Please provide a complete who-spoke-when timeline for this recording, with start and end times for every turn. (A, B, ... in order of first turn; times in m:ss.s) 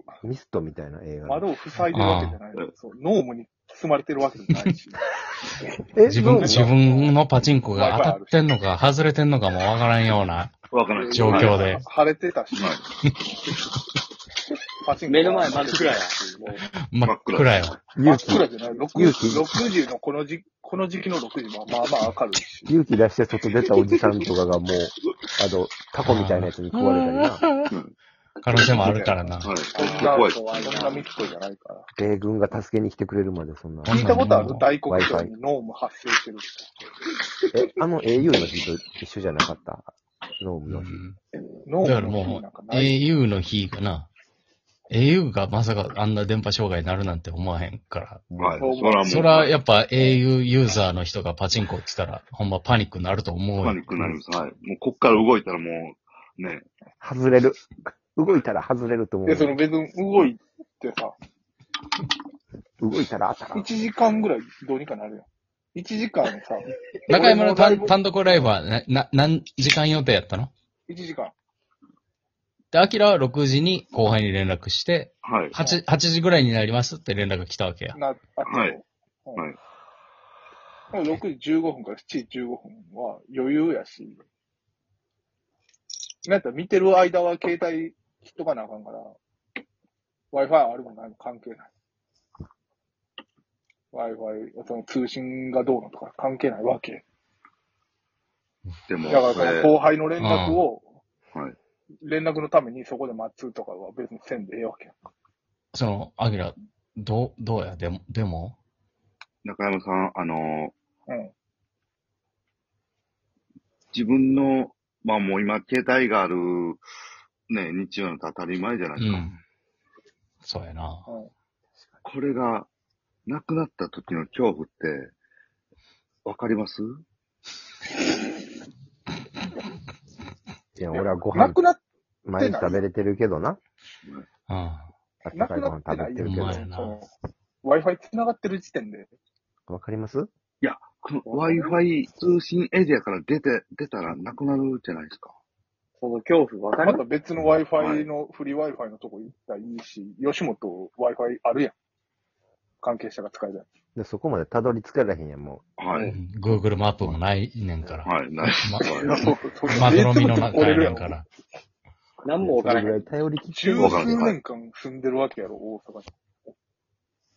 0:00.2-0:01.5 A
0:01.2-0:05.0 B
0:01.9-0:02.4 C
0:06.0-0:06.7 A
0:06.0-0:10.6 C
0:06.4-0:07.2 B
0:07.7-0:08.4 B
0:10.7-0:11.6 D
0:10.9-0:12.8 B
0:11.1-0:11.8 C
0:12.5-0:12.8 D
0:14.8-0:16.5 B
0:15.0-0:16.6 E
0:16.9-0:17.8 C
0:17.0-0:17.6 D
0:17.9-0:19.7 A
0:18.0-0:22.7 B
0:22.6-0:27.5 A
0:26.0-0:27.7 C
0:28.4-0:29.7 C
0:28.8-0:31.9 B
0:29.4-0:31.0 D
0:29.7-0:31.0 E
0:32.0-0:34.0 A
0:33.8-0:34.7 C
0:33.9-0:36.7 B
0:34.8-0:35.3 A
0:37.5-0:41.0 A
0:40.7-0:41.2 C
0:41.6-0:42.9 B
0:41.8-0:44.1 C
0:44.9-0:48.3 C
0:48.3-0:48.7 A
0:48.4-0:49.5 D
0:48.7-0:48.9 E
0:49.0-0:53.8 C
0:53.6-0:56.6 D
0:57.0-0:59.6 A
0:59.2-1:01.1 B
1:02.8-1:03.7 A
1:03.5-1:07.9 B
1:07.1-1:10.5 C
1:10.9-1:11.3 B
1:12.7-1:18.0 C
1:15.2-1:15.6 D
1:17.9-1:19.4 B
1:18.4-1:18.8 D
1:20.9-1:24.2 B
1:26.2-1:29.2 B
1:30.3-1:31.7 B
1:33.9-1:37.0 B
1:38.9-1:39.8 D
1:39.1-1:40.9 B
1:40.2-1:40.6 C
1:42.0-1:45.0 B
1:45.7-1:48.5 C
1:49.4-1:50.7 D
1:51.1-1:51.3 B
1:53.9-1:56.8 D
1:57.5-1:59.3 D
1:59.0-1:59.4 C
2:00.4-2:01.0 C
2:02.0-2:02.7 D
2:03.2-2:05.1 D
2:06.2-2:07.0 D
2:10.8-2:11.6 A
2:11.3-2:11.8 B
2:12.2-2:13.6 A
2:12.4-2:12.8 B
2:14.5-2:14.9 C
2:15.2-2:16.7 A
2:15.3-2:17.1 B
2:16.2-2:17.0 C
2:17.6-2:19.1 B
2:19.7-2:20.3 A
2:20.6-2:25.4 D
2:21.2-2:21.8 B
2:26.0-2:27.0 E
2:26.8-2:31.7 B
2:27.8-2:28.1 D
2:32.8-2:33.6 B
2:33.9-2:35.6 A
2:35.8-2:36.1 D
2:36.0-2:41.2 C
2:38.0-2:39.3 D
2:38.8-2:41.2 B
2:42.2-2:43.1 E
2:42.4-2:44.2 A
2:43.5-2:46.1 B
2:43.8-2:44.4 D